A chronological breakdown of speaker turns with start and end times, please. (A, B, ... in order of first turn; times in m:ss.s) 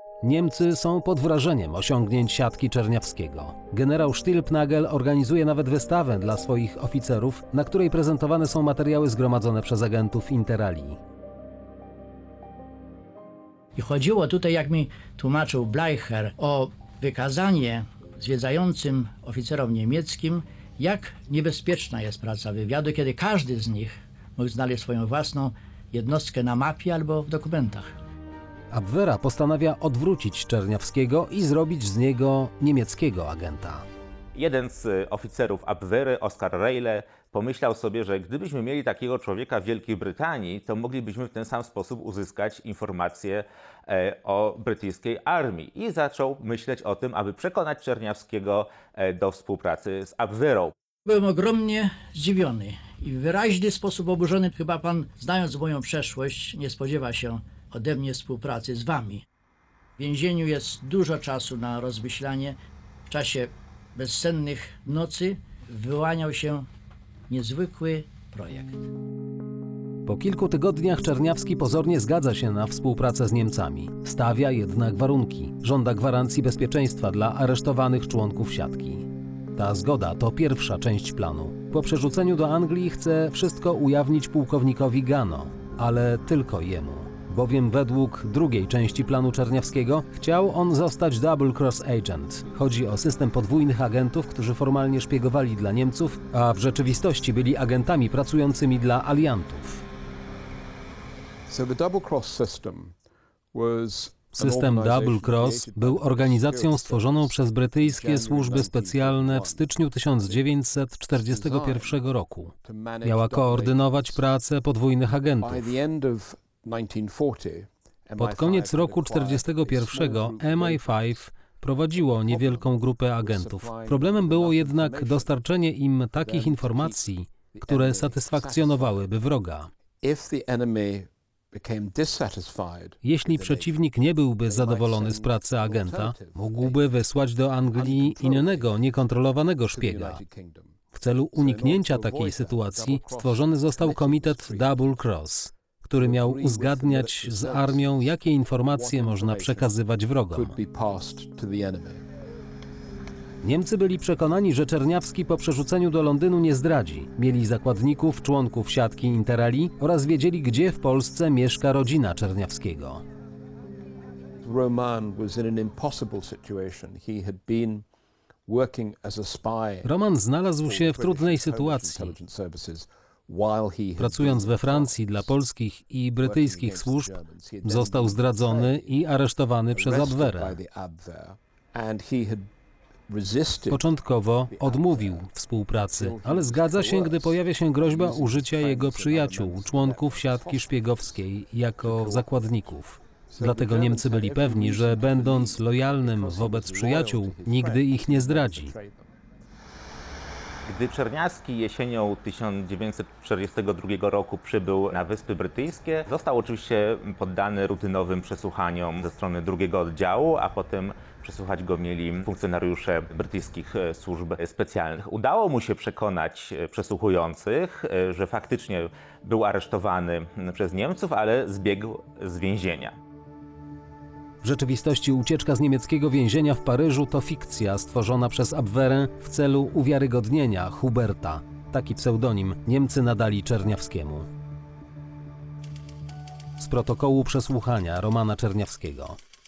0:00.2-0:11.0 A
0:13.7-0:27.9 B
0:28.7-0:33.8 A
0:34.3-0:50.7 C
0:51.0-0:59.2 B
1:00.0-1:02.6 B
1:03.1-1:06.7 B
1:07.3-1:08.9 B
1:10.0-1:39.8 A
1:41.5-1:43.0 D
1:43.5-1:50.5 D
1:44.3-1:55.7 A
1:51.1-1:52.0 D
1:52.6-1:54.2 D
1:55.4-2:01.2 D
1:58.2-2:09.7 A
2:02.0-2:05.3 D
2:06.1-2:09.2 D
2:10.0-2:13.9 D
2:13.0-2:20.2 A
2:14.4-2:16.9 D
2:17.7-2:18.9 D
2:19.7-2:20.8 D
2:20.9-2:30.6 A
2:21.4-2:24.9 D
2:25.9-2:29.8 D
2:30.3-2:32.0 D
2:33.4-2:43.0 A
2:44.4-2:47.8 D
2:48.5-2:49.9 D
2:49.8-2:52.2 A
2:50.6-2:55.3 D
2:54.0-3:00.6 A
2:56.2-2:59.0 D
2:59.7-3:02.5 D
3:03.1-3:03.9 D
3:03.7-3:18.7 A
3:04.5-3:05.3 D
3:05.8-3:11.2 D
3:11.8-3:12.5 D
3:13.3-3:19.1 D
3:20.7-3:43.0 C
3:44.4-3:54.3 A
3:56.6-3:59.2 A